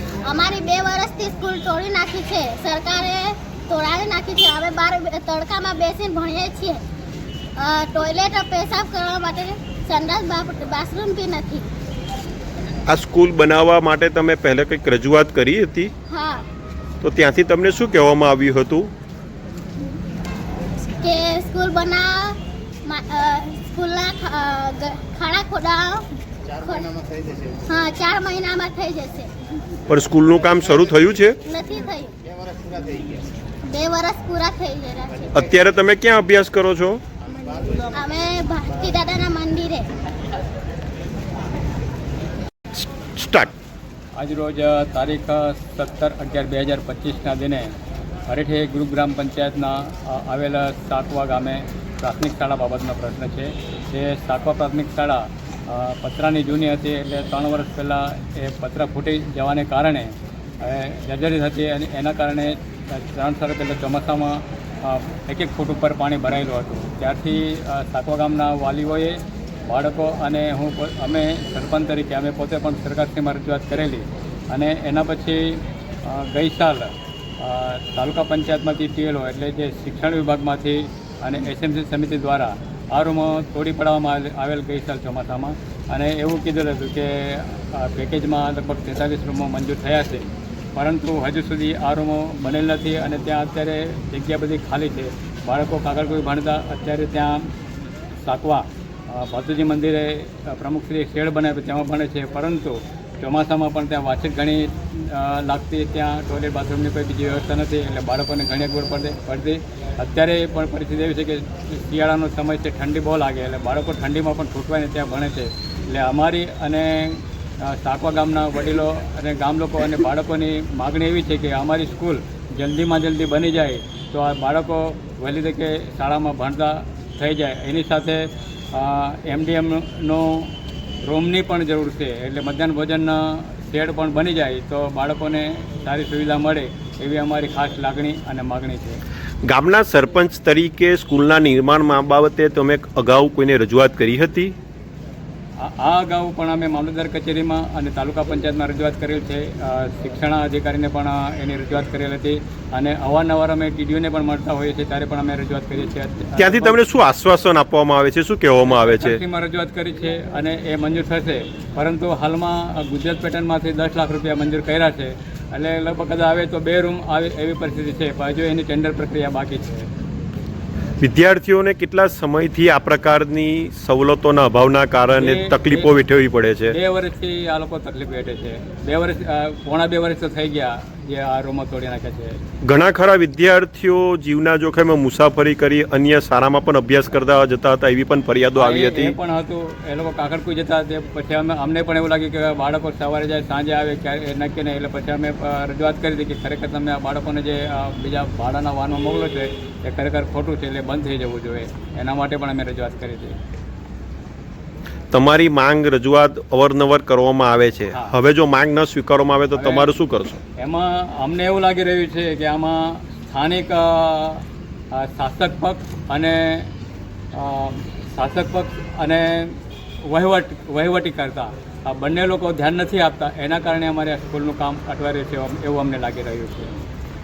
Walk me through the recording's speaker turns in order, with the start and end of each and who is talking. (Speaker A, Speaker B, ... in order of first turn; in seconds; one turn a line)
Speaker A: 0.2-6.8
Speaker A: 7.6-11.6
Speaker B: 12.9-15.9
Speaker A: 16.1-16.4
Speaker B: 17.0-18.9
Speaker A: 21.0-27.0
Speaker A: 27.7-29.3
Speaker B: 29.9-31.4
Speaker A: 31.5-32.1
Speaker A: 33.6-35.3
Speaker B: 35.3-37.0
Speaker A: 37.9-39.9
Speaker B: 42.7-43.5
Speaker C: 44.1-47.7
Speaker C: 48.3-97.5
Speaker C: 98.2-139.0
Speaker B: 139.4-144.5
Speaker C: 145.6-156.8
Speaker B: 156.4-159.2
Speaker C: 158.6-169.9
Speaker B: 171.0-176.8
Speaker C: 175.1-176.1
Speaker C: 176.6-182.4
Speaker B: 182.6-189.2
Speaker C: 188.5-203.3
Speaker B: 205.1-210.4
Speaker C: 207.9-208.2
Speaker C: 209.5-209.9
Speaker C: 210.6-216.7
Speaker C: 217.3-226.8